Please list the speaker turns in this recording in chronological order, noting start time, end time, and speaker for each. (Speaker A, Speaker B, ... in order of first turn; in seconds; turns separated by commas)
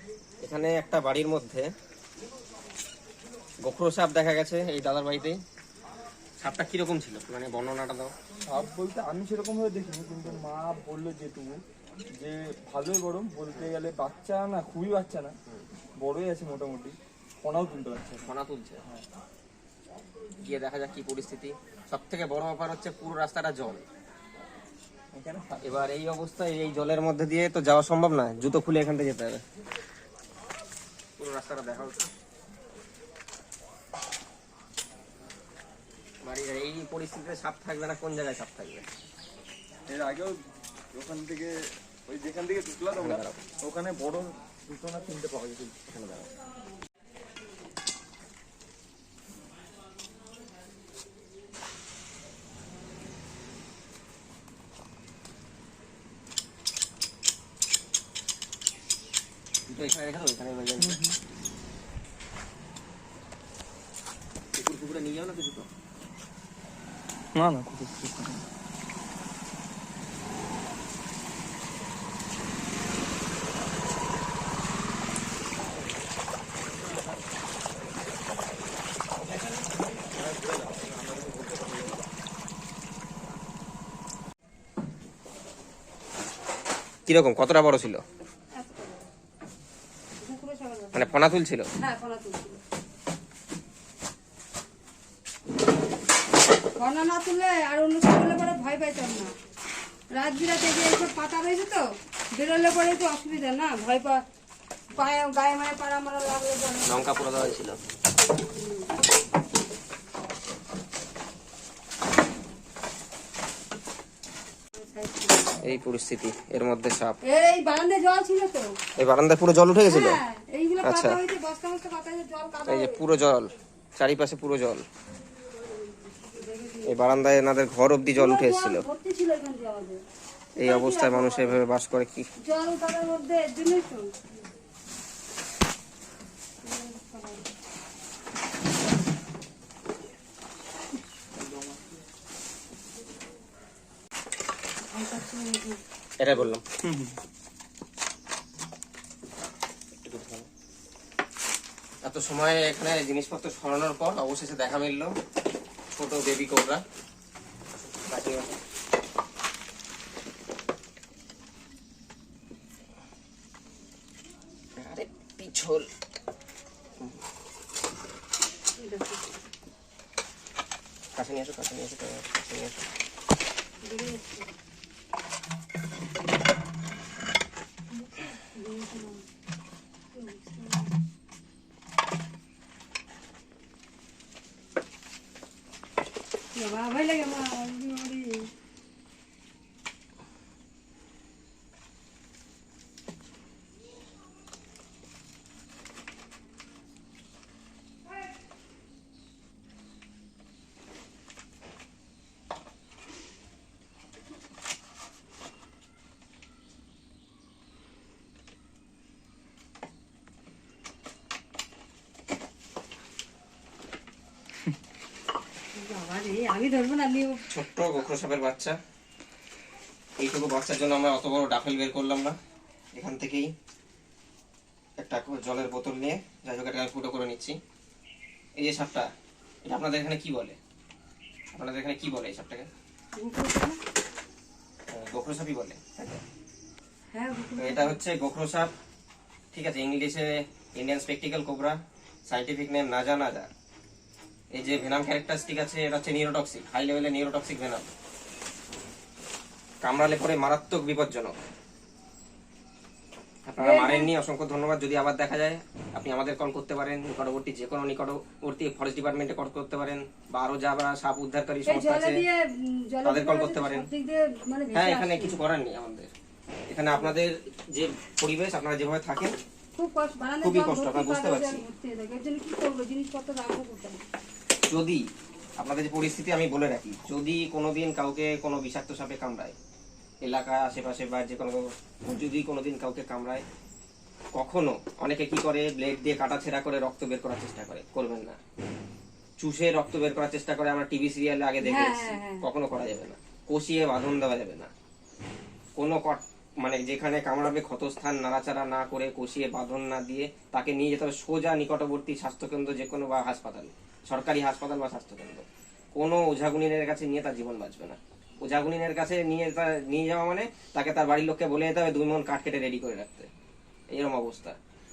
Speaker A: 0.4-1.7, Speaker A: 3.6-5.4, Speaker A: 6.4-8.1, Speaker B: 8.5-11.6, Speaker B: 12.2-15.3, Speaker B: 16.0-18.3, Speaker A: 18.3-18.8, Speaker A: 20.4-23.9, Speaker B: 25.1-25.7, Speaker A: 25.6-29.4, Speaker A: 31.2-32.1, Speaker A: 36.2-38.9, Speaker B: 39.9-40.4, Speaker B: 40.9-41.5, Speaker B: 42.1-45.8, Speaker A: 43.0-43.4, Speaker A: 45.9-46.3, Speaker A: 59.7-61.0, Speaker B: 60.8-61.2, Speaker A: 64.5-65.7, Speaker B: 67.3-68.4, Speaker B: 80.5-81.5, Speaker A: 87.1-88.0, Speaker C: 88.5-89.1, Speaker C: 90.2-91.3, Speaker A: 90.9-91.7, Speaker C: 91.8-92.6, Speaker C: 96.8-99.3, Speaker C: 100.1-104.2, Speaker C: 104.9-107.1, Speaker A: 106.8-107.8, Speaker C: 108.5-108.9, Speaker C: 114.8-115.6, Speaker A: 115.6-117.2, Speaker C: 117.2-118.8, Speaker A: 119.0-120.2, Speaker C: 119.9-123.0, Speaker A: 120.8-121.2, Speaker A: 122.7-124.9, Speaker C: 125.9-127.0, Speaker A: 126.8-128.8, Speaker C: 128.1-130.0, Speaker A: 130.6-132.3, Speaker C: 130.6-131.6, Speaker C: 132.4-134.1, Speaker C: 136.6-137.5, Speaker B: 141.4-141.8, Speaker C: 144.8-145.8, Speaker A: 146.2-146.6, Speaker B: 146.8-147.2, Speaker A: 150.0-150.5, Speaker A: 152.0-155.1, Speaker A: 155.9-156.8, Speaker A: 158.1-158.6, Speaker A: 164.8-165.9, Speaker C: 168.8-169.4, Speaker A: 171.2-172.9, Speaker C: 173.8-174.5, Speaker C: 177.9-179.2, Speaker C: 180.1-180.9, Speaker C: 186.6-188.5, Speaker C: 215.7-217.4, Speaker A: 217.5-218.8, Speaker A: 220.2-222.4, Speaker A: 222.9-223.5, Speaker A: 225.0-227.6, Speaker A: 228.6-229.1, Speaker A: 229.7-230.6, Speaker A: 231.5-232.7, Speaker C: 233.2-233.8, Speaker A: 234.9-236.2, Speaker C: 237.1-238.0, Speaker A: 237.6-238.7, Speaker A: 239.5-243.5, Speaker A: 244.5-247.9, Speaker A: 249.8-251.3, Speaker A: 253.5-262.2, Speaker C: 253.6-254.1, Speaker C: 261.7-265.4, Speaker A: 263.1-263.9, Speaker A: 264.7-266.1, Speaker A: 266.7-269.4, Speaker C: 269.8-274.0, Speaker A: 270.4-271.6, Speaker A: 274.7-275.0, Speaker A: 275.6-279.6, Speaker A: 280.2-283.4, Speaker A: 284.4-288.4, Speaker A: 289.4-294.7, Speaker C: 291.6-292.4, Speaker A: 295.8-313.3, Speaker A: 313.9-314.6